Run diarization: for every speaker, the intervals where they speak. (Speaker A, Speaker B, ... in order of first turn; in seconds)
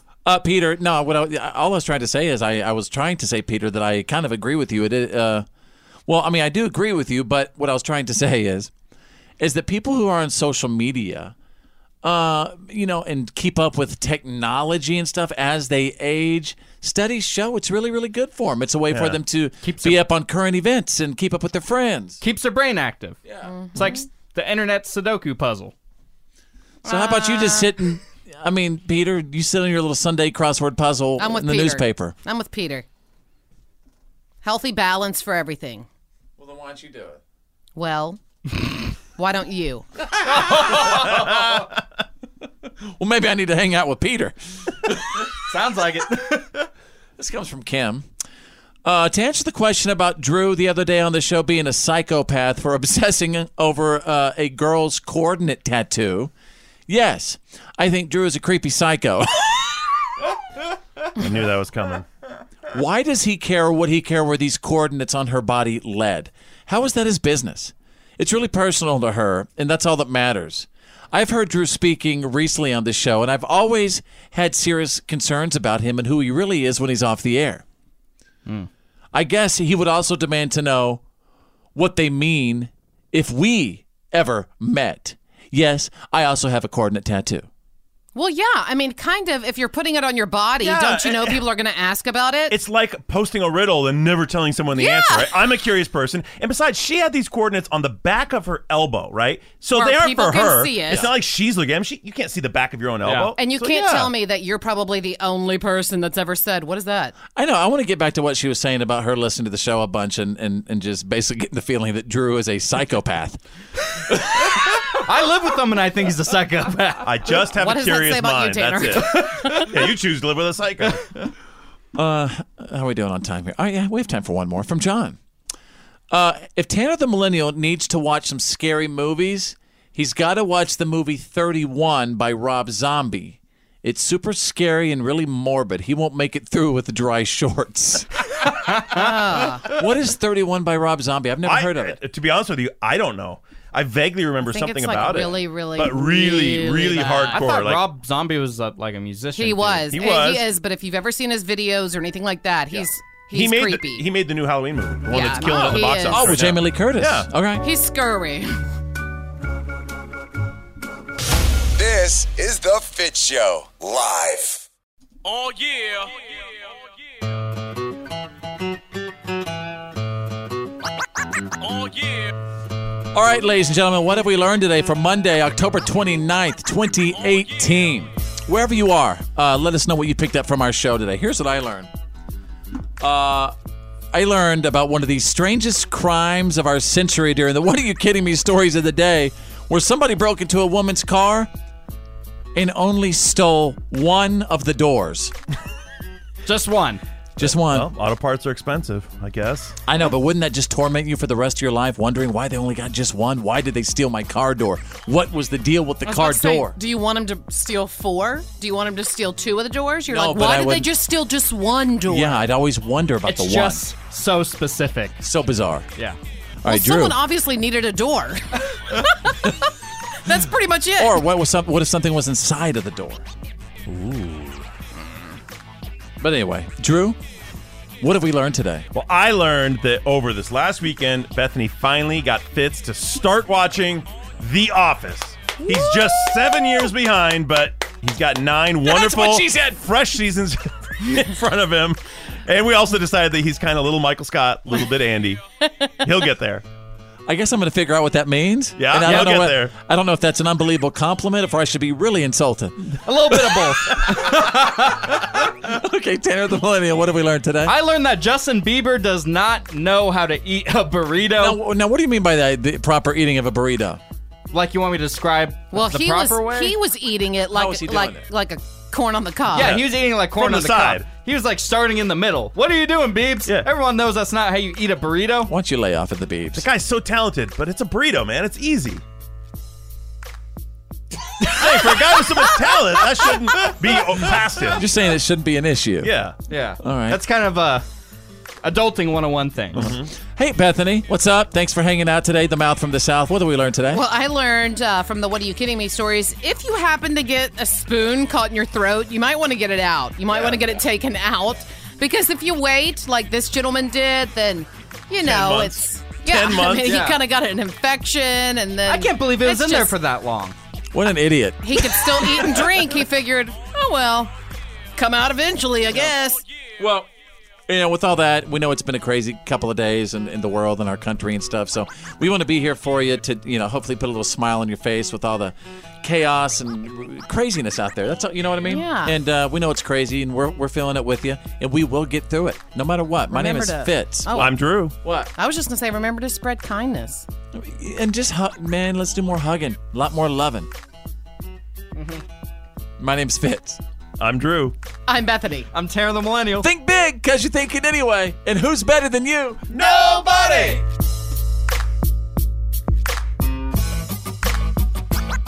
Speaker A: 0.2-5.5, 6.1-8.7, 9.4-11.3, 12.0-22.2, 23.3-23.5, 26.9-32.1, 36.4-37.2, 40.5-41.4, 43.0-45.3, 47.2-48.1, 48.9-56.3, 56.9-59.8, 62.7-77.6, 79.1-81.0, 81.8-87.5, 107.3-113.4, 114.1-114.5, 122.0-125.2, 126.1-138.1, 139.6-142.0, 155.4-157.6, 173.1-181.9, 183.0-183.6, 184.1-191.5, 192.6-195.3, 197.4-197.9, 199.9-206.8, 210.1-210.9, 212.1-213.8, 215.2-215.9, 216.6-217.2, 221.0-223.3, 223.9-224.6, 226.2-227.2, 228.0-228.9, 238.8-239.8, 247.3-257.8, 261.4-264.0, 267.5-268.2, 275.5-276.7, 284.8-286.1, 286.8-287.2, 289.8-294.0, 310.9-312.5, 316.8-317.1, 317.7-335.3, 337.5-340.7, 343.0-343.8, 346.6-349.6
Speaker B: 18.9-19.2, 61.2-62.1, 90.6-91.4, 92.5-104.1, 117.0-121.0, 141.4-147.8, 149.9-150.5, 153.3-157.3, 197.4-199.8, 228.9-245.4, 246.0-246.6, 248.8-249.7, 269.5-271.1, 276.6-279.0, 281.4-284.8, 286.0-286.4, 289.7-290.1, 300.3-300.6, 305.2-307.0, 334.3-334.9, 344.2-344.8, 349.7-350.8
Speaker C: 19.6-20.0, 22.2-23.2, 23.8-25.7, 40.3-41.3, 45.5-46.6, 103.0-103.3, 114.9-117.1, 138.7-139.0, 147.3-149.9, 196.5-197.0, 213.3-215.2, 249.0-249.4, 253.1-254.5, 257.6-261.6, 264.5-266.7, 269.5-275.5, 286.5-287.8, 288.6-289.9, 306.9-307.2, 308.9-310.6, 345.7-346.7
Speaker D: 23.5-24.1, 26.9-27.7, 31.2-32.9, 34.4-35.9, 37.8-38.2, 39.2-39.9, 88.2-92.5, 94.8-95.3, 99.7-101.1, 103.4-107.2, 117.6-119.7, 138.9-139.7, 144.5-147.4, 149.4-154.1, 155.1-156.3, 157.6-158.6, 206.1-212.4, 216.7-219.5, 220.3-221.2, 235.9-236.3, 265.7-269.7, 293.9-309.9, 311.6-314.3, 315.0-316.4, 328.6-329.1, 333.3-334.5, 335.4-337.3, 345.1-345.7
Speaker E: 161.8-164.7